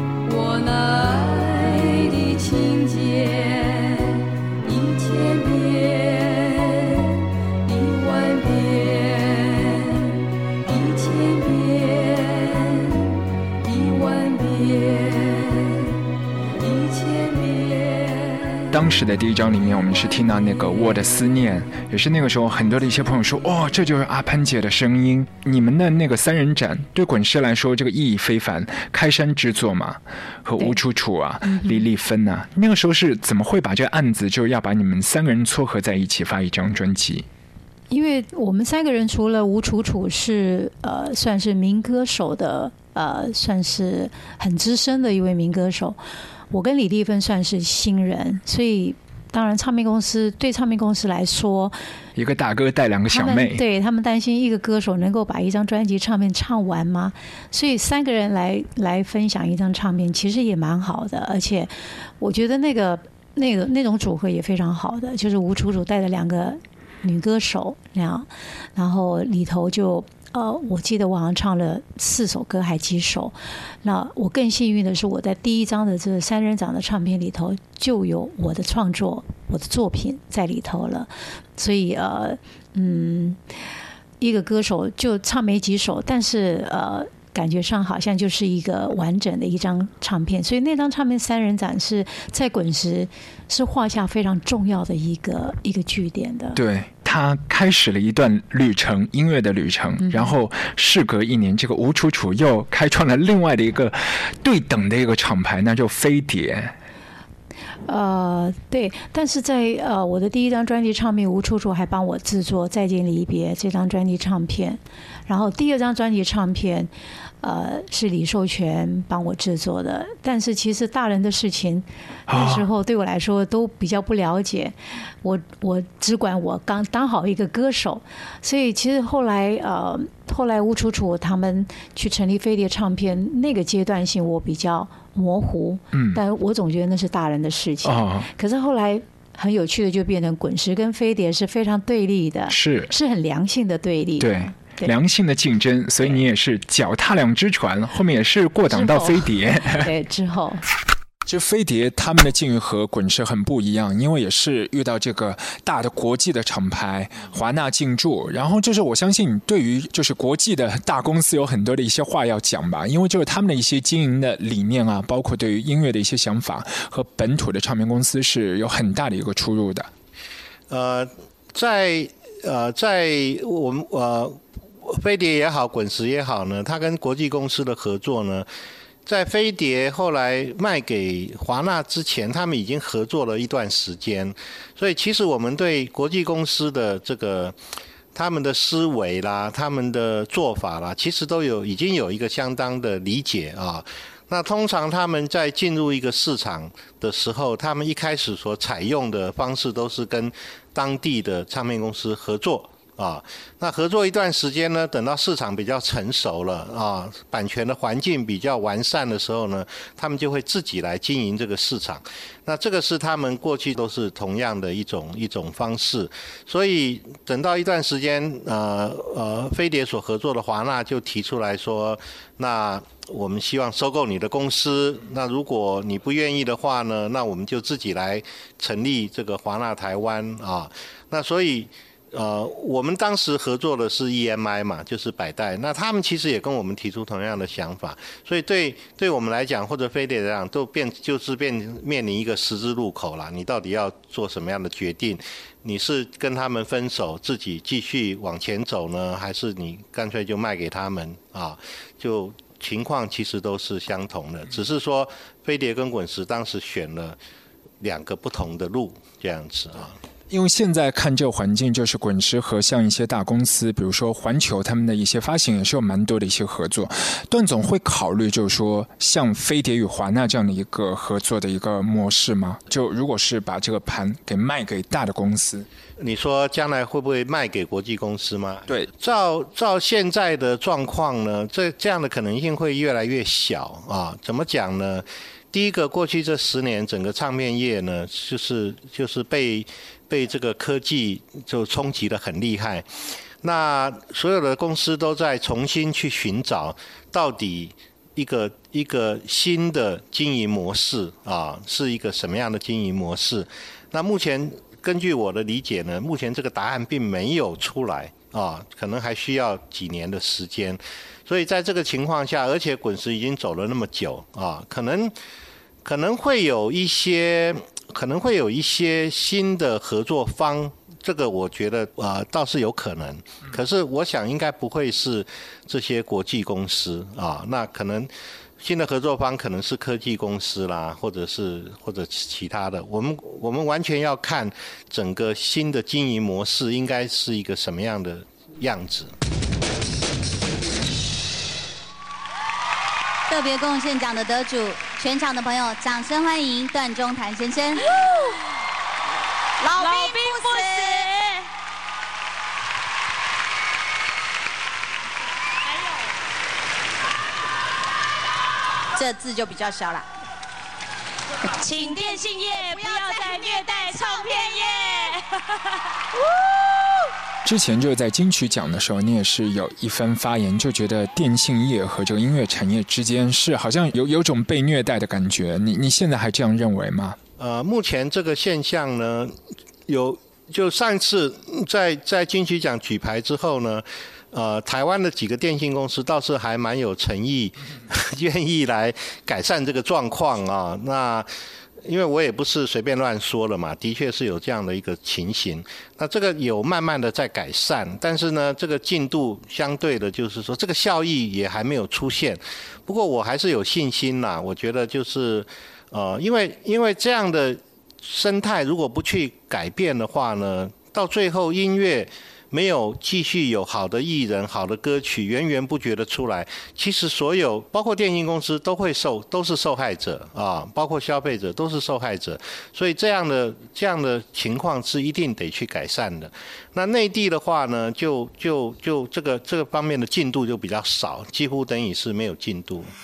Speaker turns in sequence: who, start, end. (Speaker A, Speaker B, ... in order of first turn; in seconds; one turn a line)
Speaker A: 0.2-16.0
Speaker A: 16.6-18.7
Speaker B: 18.7-37.2
Speaker C: 31.4-31.8
Speaker C: 37.9-51.8
Speaker B: 52.1-53.6
Speaker C: 53.1-83.4
Speaker C: 84.2-96.6
Speaker B: 96.5-106.7
Speaker C: 100.0-100.3
Speaker C: 107.9-144.9
Speaker B: 122.3-122.7
Speaker B: 135.9-136.2
Speaker B: 137.8-138.3
Speaker B: 142.5-142.9
Speaker B: 144.2-149.9
Speaker C: 148.7-150.6
Speaker B: 151.2-169.9
Speaker D: 170.7-178.5
Speaker D: 179.1-187.6
Speaker D: 188.1-257.2
Speaker D: 257.8-260.0
Speaker B: 260.3-275.7
Speaker D: 276.0-292.9
Speaker D: 293.4-315.1
Speaker D: 315.8-339.1
Speaker E: 343.3-348.0
Speaker E: 349.6-351.3
Speaker E: 358.9-360.1
Speaker E: 361.5-365.1
Speaker B: 367.4-377.2
Speaker D: 377.4-379.4
Speaker D: 379.9-391.3
Speaker D: 391.8-432.9